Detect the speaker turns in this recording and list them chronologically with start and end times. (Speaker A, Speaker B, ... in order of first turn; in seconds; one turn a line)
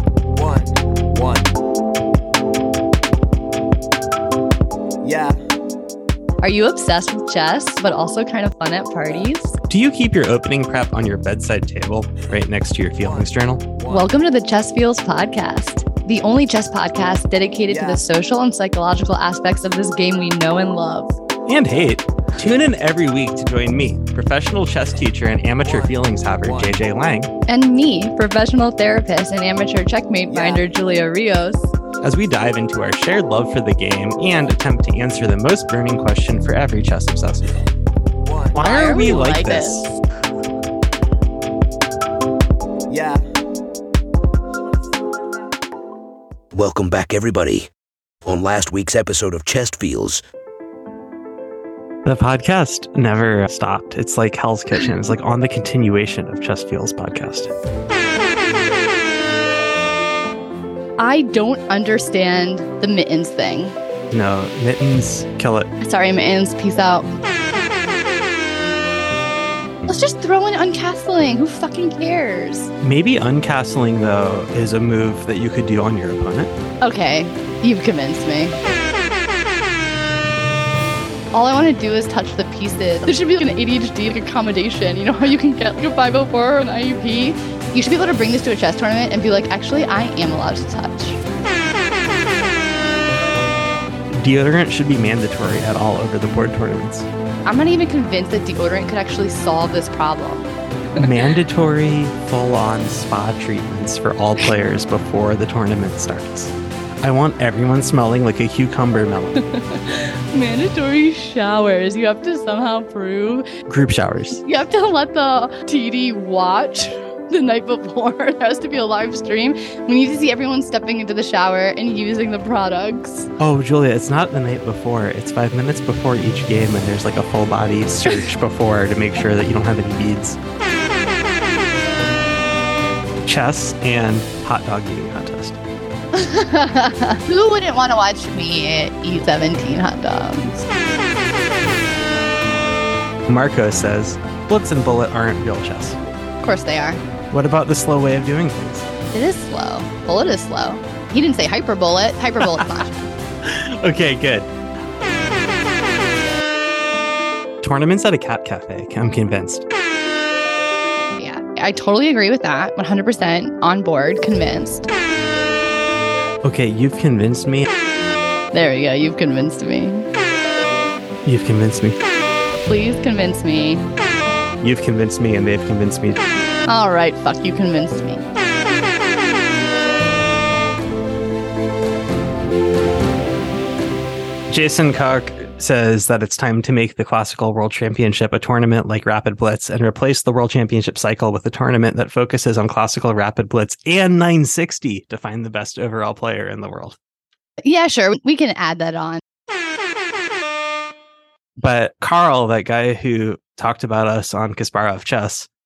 Speaker A: 0.3-1.6
Speaker A: 5.0-5.4
Speaker B: 6.4-9.6
Speaker C: 9.7-13.6
Speaker A: 13.0-14.1
Speaker B: 13.9-21.2
Speaker A: 17.7-18.0
Speaker C: 21.5-27.3
Speaker A: 25.6-26.8
Speaker B: 27.5-31.7
Speaker A: 30.3-30.7
Speaker C: 32.0-37.5
Speaker A: 38.2-38.6
Speaker C: 38.5-39.9
Speaker B: 38.6-40.0
Speaker A: 42.9-43.3
Speaker A: 44.7-45.0
Speaker D: 46.5-47.7
Speaker D: 48.2-50.2
Speaker C: 52.0-57.5
Speaker B: 61.0-63.8
Speaker C: 64.1-65.7
Speaker B: 65.8-67.1
Speaker B: 69.9-72.7
Speaker C: 72.8-76.5
Speaker B: 76.8-78.6
Speaker B: 81.3-91.2
Speaker C: 94.1-97.1
Speaker B: 97.5-100.5
Speaker C: 101.0-109.4
Speaker B: 109.4-113.5
Speaker C: 113.7-114.4
Speaker B: 114.4-123.3
Speaker C: 123.4-130.4
Speaker C: 133.2-135.6
Speaker B: 136.1-140.6
Speaker C: 143.3-146.0
Speaker B: 146.4-147.0
Speaker C: 147.3-148.9
Speaker B: 149.1-152.9
Speaker C: 153.4-154.5
Speaker C: 157.6-159.6
Speaker B: 161.2-164.9
Speaker C: 166.4-167.7
Speaker B: 168.5-170.1
Speaker C: 171.2-172.0
Speaker B: 172.7-173.8
Speaker C: 174.6-176.3
Speaker B: 176.7-178.2
Speaker C: 184.5-197.0
Speaker B: 197.6-199.2
Speaker C: 201.6-205.5